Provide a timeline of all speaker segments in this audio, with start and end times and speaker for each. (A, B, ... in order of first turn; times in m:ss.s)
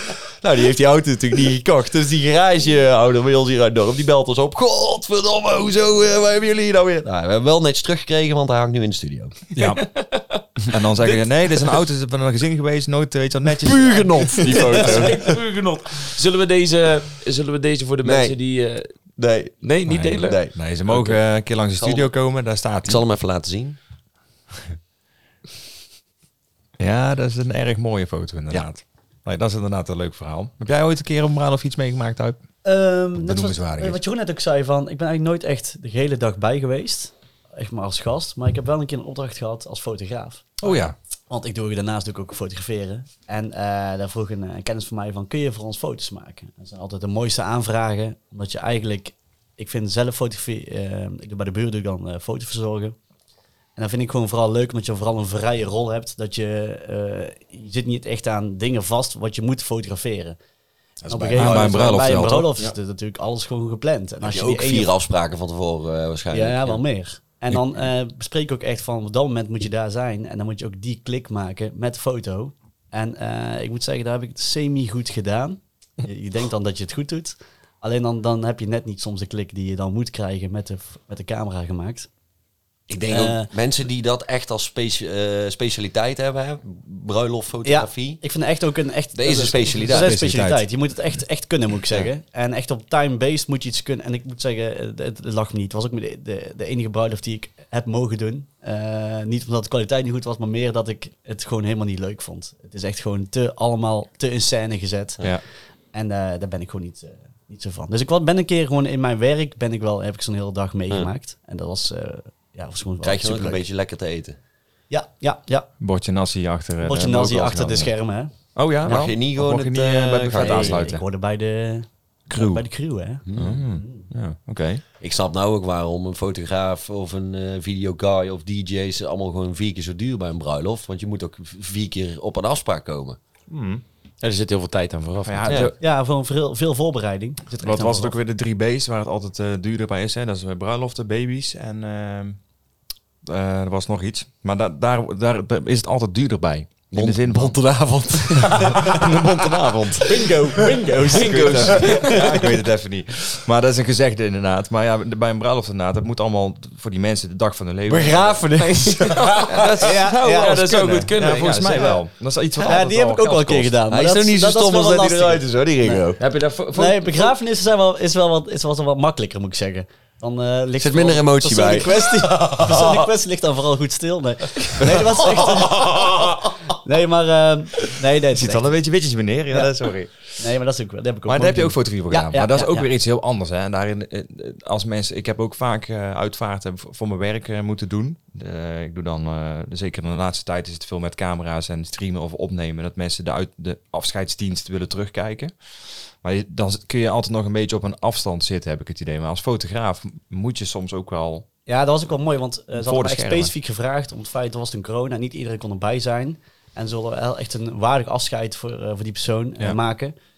0:00.4-0:09.4 A
0:09.5-0:09.8 B
0:09.6-0:10.5 C
0:10.7-0:14.9 B
0:13.6-0:15.4 A
0:14.5-0:18.9 C
0:18.0-0:18.4 A
0:19.2-0:20.5 A
0:19.6-0:21.1 C
0:19.9-0:23.0 B
0:21.8-0:22.1 A
0:22.8-0:23.8 A
0:26.8-0:32.4 B
0:32.6-0:40.7 D
0:33.2-0:34.0 B
0:40.6-0:40.9 B
0:41.3-0:53.0 D
0:53.8-1:00.4 D
1:01.0-1:02.1 A
1:01.1-1:04.9 D
1:01.3-1:02.7 B
1:04.2-1:06.8 A
1:06.3-1:22.1 D
1:22.9-1:28.2 A
1:23.1-1:23.5 D
1:27.6-1:45.2 D
1:29.1-1:30.1 A
1:29.8-1:30.6 B
1:45.9-1:53.6 D
1:53.0-1:54.4 A
1:54.9-1:55.7 D
1:55.8-1:57.9 B
1:56.8-1:58.3 D
1:58.5-2:01.0 B
1:58.8-1:59.1 D
1:58.8-2:00.9 A
2:00.3-2:04.1 D
2:02.3-2:02.6 B
2:03.3-2:03.6 A
2:03.3-2:04.8 B
2:05.0-2:13.2 A
2:13.5-2:13.8 B
2:14.2-2:15.7 C
2:15.2-2:15.7 B
2:15.5-2:15.7 A
2:15.8-2:18.1 D
2:17.6-2:22.4 B
2:23.2-2:27.6 B
2:26.9-2:29.5 A
2:28.3-2:30.6 B
2:30.1-2:31.3 A
2:30.1-2:32.2 D
2:31.0-2:32.3 C
2:31.2-2:38.4 B
2:37.9-2:39.7 A
2:38.6-2:41.9 C
2:39.5-2:43.8 B
2:39.8-2:40.6 D
2:41.7-2:42.0 D
2:42.6-2:46.0 D
2:43.9-2:46.2 A
2:46.2-2:47.3 C
2:46.7-2:58.8 D
2:50.8-2:53.0 A
2:55.3-2:56.5 B
2:58.3-3:00.5 B
2:59.5-2:59.8 D
3:00.3-3:02.9 D
3:01.3-3:15.5 B
3:16.2-3:21.4 B
3:21.7-3:30.1 D
3:22.8-3:23.5 B